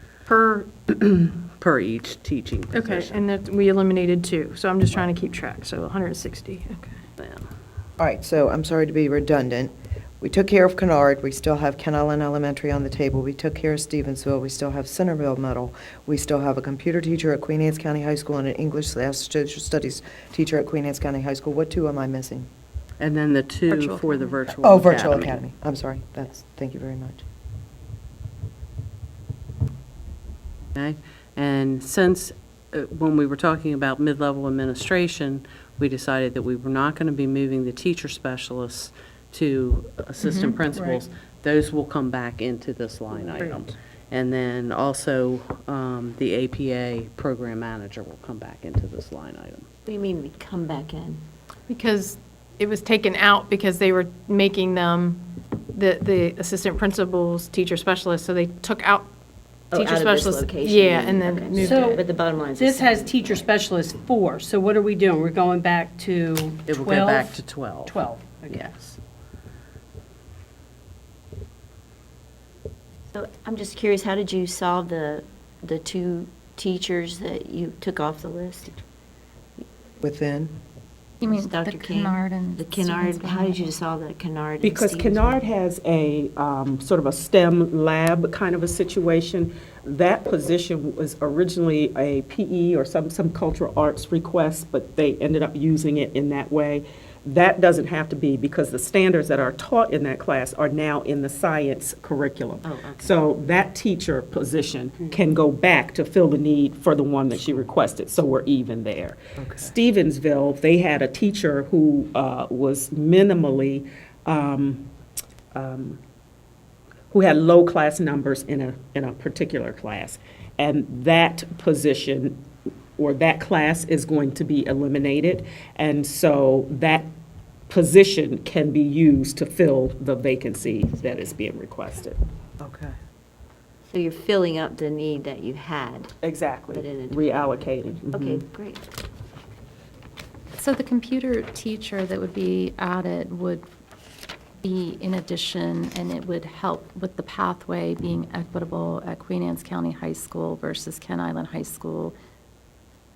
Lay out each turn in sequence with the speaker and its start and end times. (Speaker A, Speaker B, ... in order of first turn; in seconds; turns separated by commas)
Speaker A: 0.3-0.7, Speaker B: 0.9-3.2, Speaker A: 2.7-6.9, Speaker B: 7.2-7.5, Speaker C: 8.0-22.5, Speaker B: 23.0-25.4, Speaker D: 23.7-24.5, Speaker C: 24.6-27.2, Speaker B: 30.8-49.7, Speaker A: 40.2-40.6, Speaker E: 49.9-51.2, Speaker A: 51.7-55.2, Speaker A: 55.7-59.1, Speaker E: 59.7-63.5, Speaker A: 59.7-62.0, Speaker F: 61.6-69.0, Speaker B: 66.7-68.9, Speaker E: 73.1-78.8, Speaker C: 80.0-80.5, Speaker D: 81.2-83.8, Speaker E: 81.2-85.4, Speaker G: 84.6-114.9, Speaker E: 102.6-103.1, Speaker C: 109.4-109.7, Speaker G: 115.5-116.0, Speaker G: 117.1-122.4, Speaker G: 123.0-127.1, Speaker G: 127.7-132.2, Speaker C: 132.6-132.9, Speaker E: 133.9-136.1, Speaker G: 136.2-138.4, Speaker E: 136.7-138.8, Speaker D: 140.6-143.7, Speaker D: 144.6-152.2